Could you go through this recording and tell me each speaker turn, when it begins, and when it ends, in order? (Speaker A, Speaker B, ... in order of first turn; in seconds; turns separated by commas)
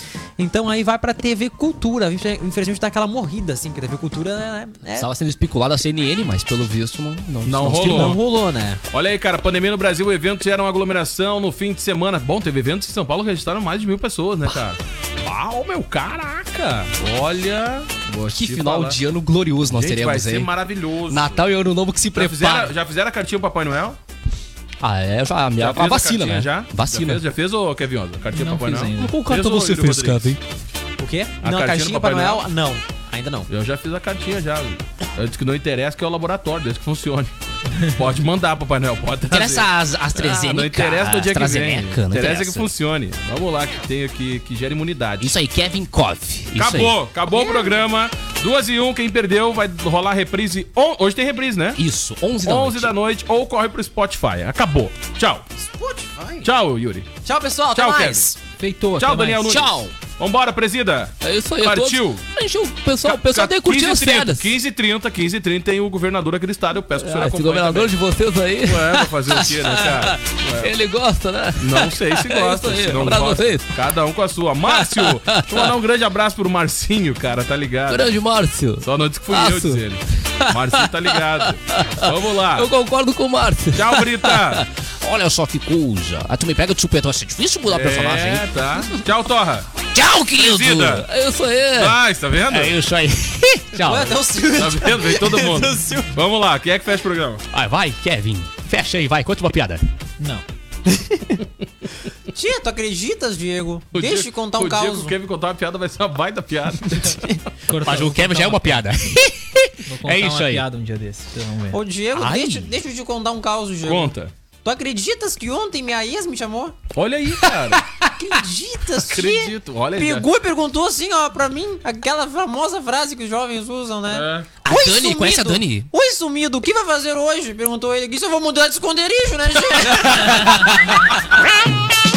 Speaker A: 0.4-5.1, Speaker B: 5.0-8.2, Speaker C: 7.4-8.2, Speaker A: 7.7-8.8, Speaker C: 8.9-19.0, Speaker B: 18.3-20.5, Speaker C: 19.7-21.4, Speaker B: 21.1-22.7, Speaker C: 22.1-24.0, Speaker B: 24.8-27.2, Speaker C: 25.6-30.4, Speaker D: 28.3-29.1, Speaker B: 29.0-30.4, Speaker A: 31.0-33.5, Speaker C: 31.4-32.5, Speaker C: 33.5-37.3, Speaker C: 37.8-45.4, Speaker B: 39.3-42.7, Speaker B: 45.2-47.0, Speaker C: 46.5-51.8, Speaker A: 47.3-47.7, Speaker B: 51.8-52.9, Speaker C: 52.4-55.4, Speaker A: 55.6-56.5, Speaker C: 56.4-57.1, Speaker A: 57.2-58.4, Speaker C: 57.7-58.2, Speaker D: 58.6-59.5, Speaker C: 59.0-62.2, Speaker B: 59.4-59.9, Speaker B: 61.2-64.5, Speaker C: 63.0-67.9, Speaker B: 67.0-73.7, Speaker C: 68.6-70.7, Speaker C: 71.6-78.1, Speaker B: 74.7-75.7, Speaker B: 77.9-88.5, Speaker C: 78.8-82.7, Speaker C: 83.7-84.6, Speaker C: 87.7-89.7, Speaker B: 89.9-92.0, Speaker C: 90.3-91.0, Speaker C: 91.7-92.8, Speaker B: 92.5-94.2, Speaker A: 93.8-96.1, Speaker C: 94.5-97.4, Speaker B: 97.5-99.8, Speaker A: 100.9-101.4, Speaker A: 102.3-105.1, Speaker C: 103.9-107.2, Speaker A: 107.0-107.4, Speaker D: 107.7-108.8, Speaker B: 107.8-110.6, Speaker D: 109.8-111.8, Speaker A: 111.7-116.8, Speaker B: 112.1-112.7, Speaker C: 113.8-114.3, Speaker C: 116.9-117.8, Speaker A: 117.9-131.2, Speaker C: 119.0-120.3, Speaker C: 124.1-124.5, Speaker B: 124.6-125.9